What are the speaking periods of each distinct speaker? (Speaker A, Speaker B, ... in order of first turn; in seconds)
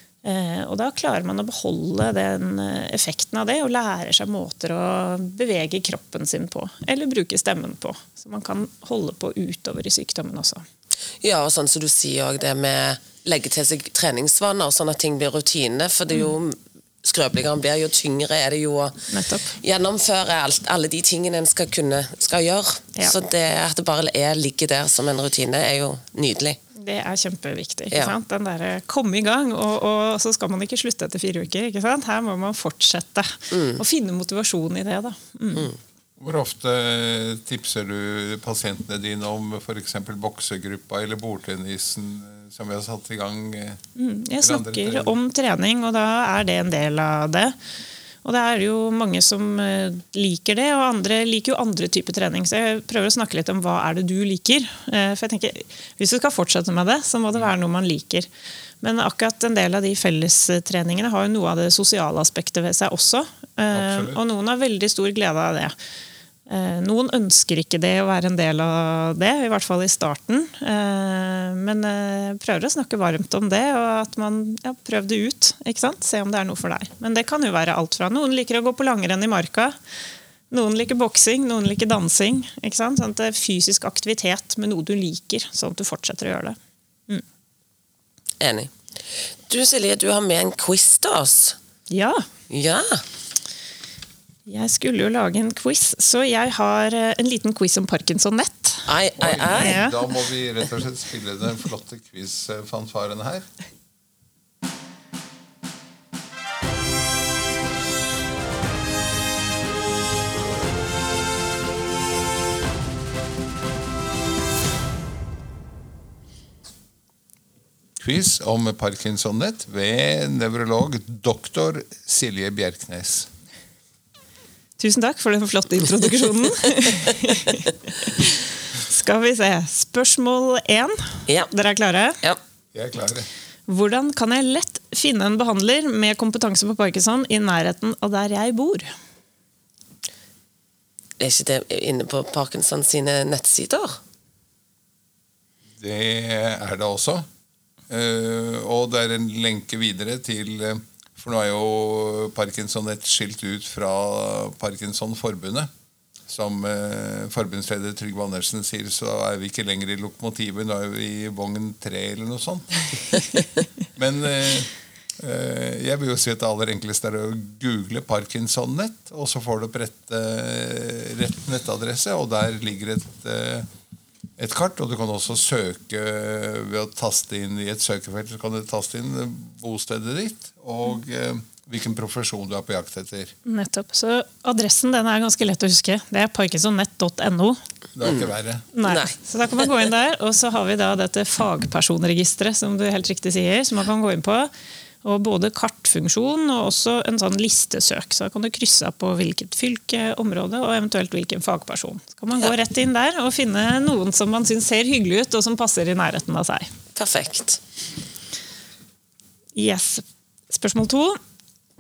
Speaker A: 0.2-10.7, 19.1-19.6, 26.8-35.7, 44.0-47.6, 48.2-58.3, 58.8-65.7, 66.5-79.8, 80.5-86.6, 91.9-92.2, 94.5-98.9, 99.6-100.0, 124.8-132.2, 133.7-138.9, 183.4-187.6, 188.7-194.5, 195.0-206.7, 209.6-211.2
Speaker B: 11.2-26.6, 33.5-33.8, 88.4-91.6, 92.5-93.0, 98.9-99.8, 141.2-144.0, 188.0-188.3, 188.8-189.7, 207.0-207.6
Speaker C: 36.2-43.8, 44.4-45.2, 63.7-64.2, 99.2-103.5, 118.0-123.3, 132.7-133.3, 145.8-147.3, 147.9-155.7, 156.3-162.8, 164.0-173.7, 174.4-183.3, 188.0-188.7